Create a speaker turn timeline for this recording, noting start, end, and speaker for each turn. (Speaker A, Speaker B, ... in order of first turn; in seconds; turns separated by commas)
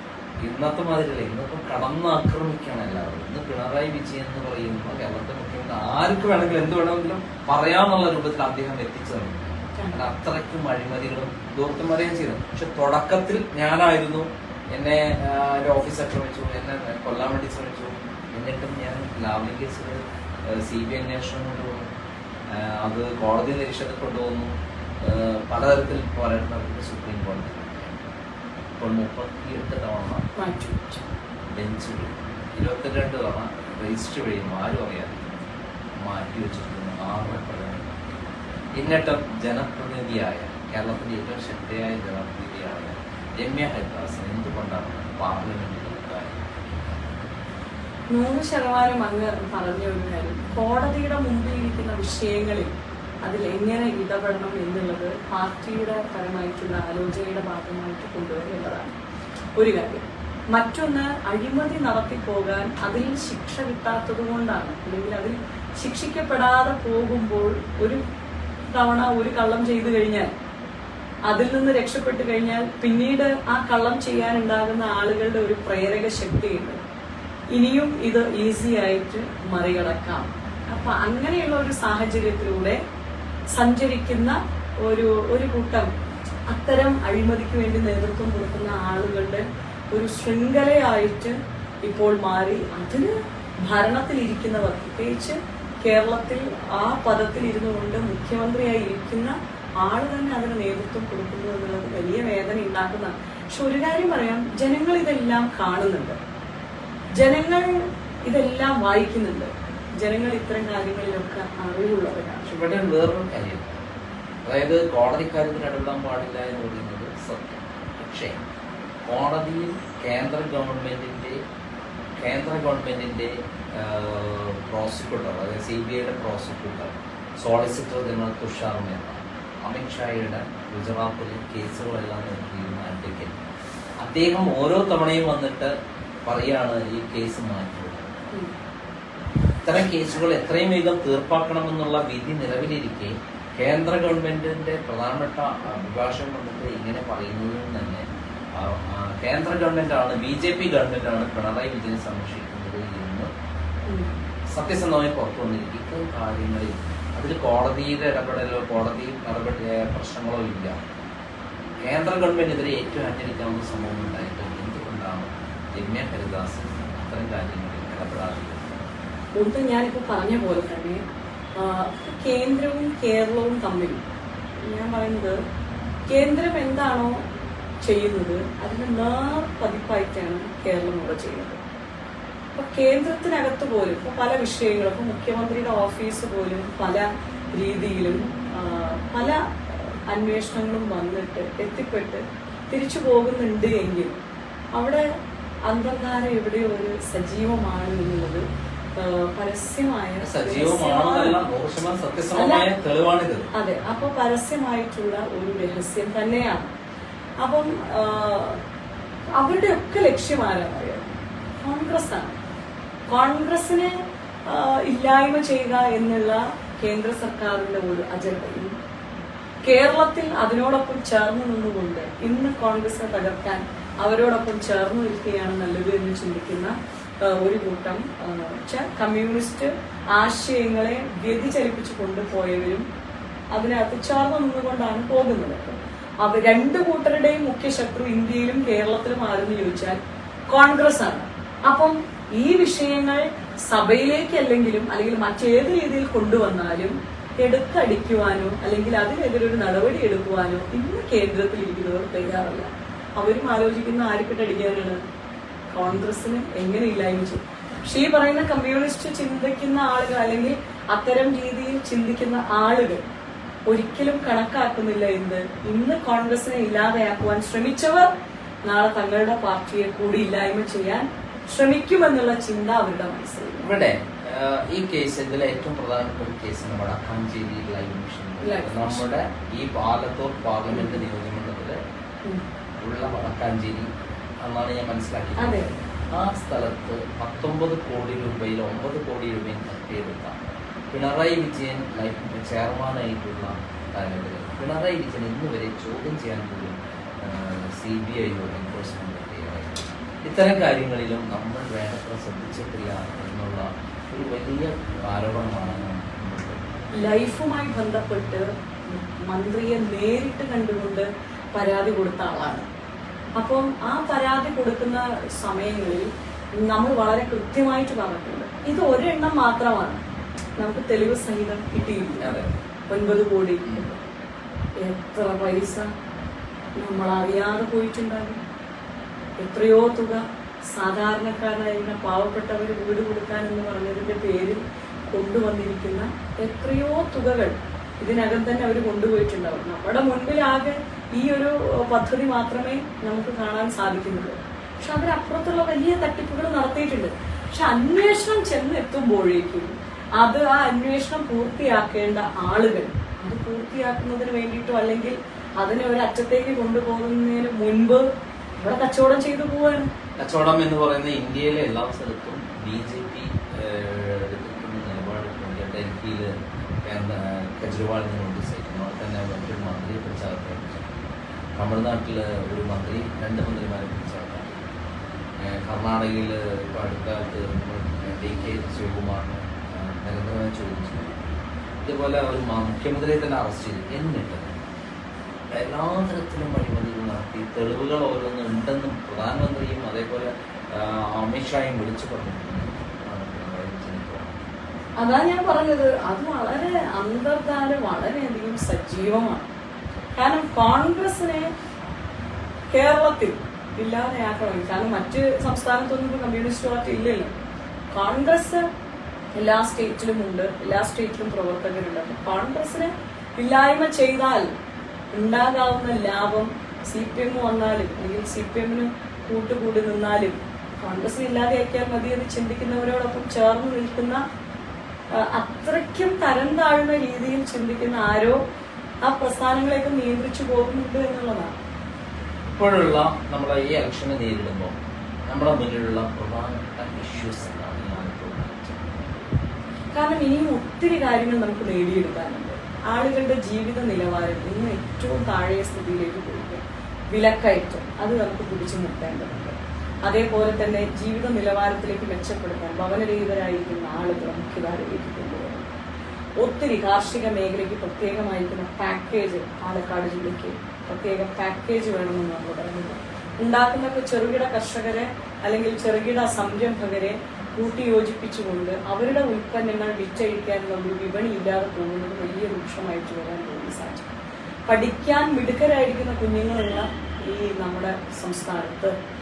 Speaker A: 0.4-21.9, Speaker A: 22.5-28.0, Speaker A: 28.8-30.2, Speaker B: 30.4-31.0, Speaker A: 31.5-35.3, Speaker A: 36.0-38.2, Speaker A: 38.8-47.1, Speaker B: 48.1-52.7, Speaker B: 53.2-58.9, Speaker B: 59.6-68.0, Speaker B: 68.7-70.3, Speaker B: 71.3-76.8, Speaker B: 77.5-82.8, Speaker B: 83.5-85.9, Speaker B: 86.5-106.2, Speaker B: 107.2-112.5, Speaker A: 112.5-113.9, Speaker A: 114.4-118.4, Speaker A: 119.1-121.4, Speaker A: 122.2-133.4, Speaker A: 134.0-135.7, Speaker A: 136.2-138.2, Speaker A: 139.6-153.3, Speaker A: 154.5-160.8, Speaker A: 161.8-168.9, Speaker B: 169.3-171.0, Speaker B: 171.6-174.0, Speaker B: 174.6-175.4, Speaker B: 176.1-177.2, Speaker B: 177.8-181.6, Speaker B: 182.5-194.2, Speaker B: 194.8-195.1, Speaker B: 195.7-198.4, Speaker B: 199.0-201.4, Speaker A: 200.2-203.5, Speaker B: 202.3-202.6, Speaker B: 203.5-206.7, Speaker B: 207.4-208.6, Speaker B: 209.3-211.1, Speaker B: 211.6-212.4, Speaker B: 213.1-218.7, Speaker B: 219.6-232.8, Speaker B: 233.5-240.0, Speaker B: 240.5-255.0, Speaker B: 255.7-263.0, Speaker B: 263.7-268.1, Speaker B: 268.6-273.7, Speaker A: 273.6-281.8, Speaker B: 278.4-279.0, Speaker B: 280.7-281.0, Speaker A: 282.8-283.9, Speaker A: 284.4-290.4, Speaker B: 285.4-285.7, Speaker A: 290.9-306.7, Speaker B: 306.9-312.6, Speaker B: 313.4-320.0, Speaker B: 320.6-322.4, Speaker A: 322.2-322.5, Speaker B: 322.9-324.0, Speaker B: 324.8-325.9, Speaker B: 326.8-328.4, Speaker B: 329.4-358.1, Speaker B: 358.6-359.9, Speaker A: 360.2-371.0, Speaker A: 371.6-374.7, Speaker A: 375.4-384.6, Speaker A: 385.5-394.5, Speaker B: 395.0-399.5, Speaker B: 400.1-401.5, Speaker B: 402.7-407.3, Speaker B: 407.9-408.6, Speaker B: 409.4-414.5, Speaker B: 415.1-424.2, Speaker B: 425.1-428.4, Speaker B: 429.0-431.6, Speaker A: 432.5-434.8, Speaker A: 435.3-439.3, Speaker B: 439.9-455.7, Speaker B: 456.4-474.1, Speaker B: 474.7-478.9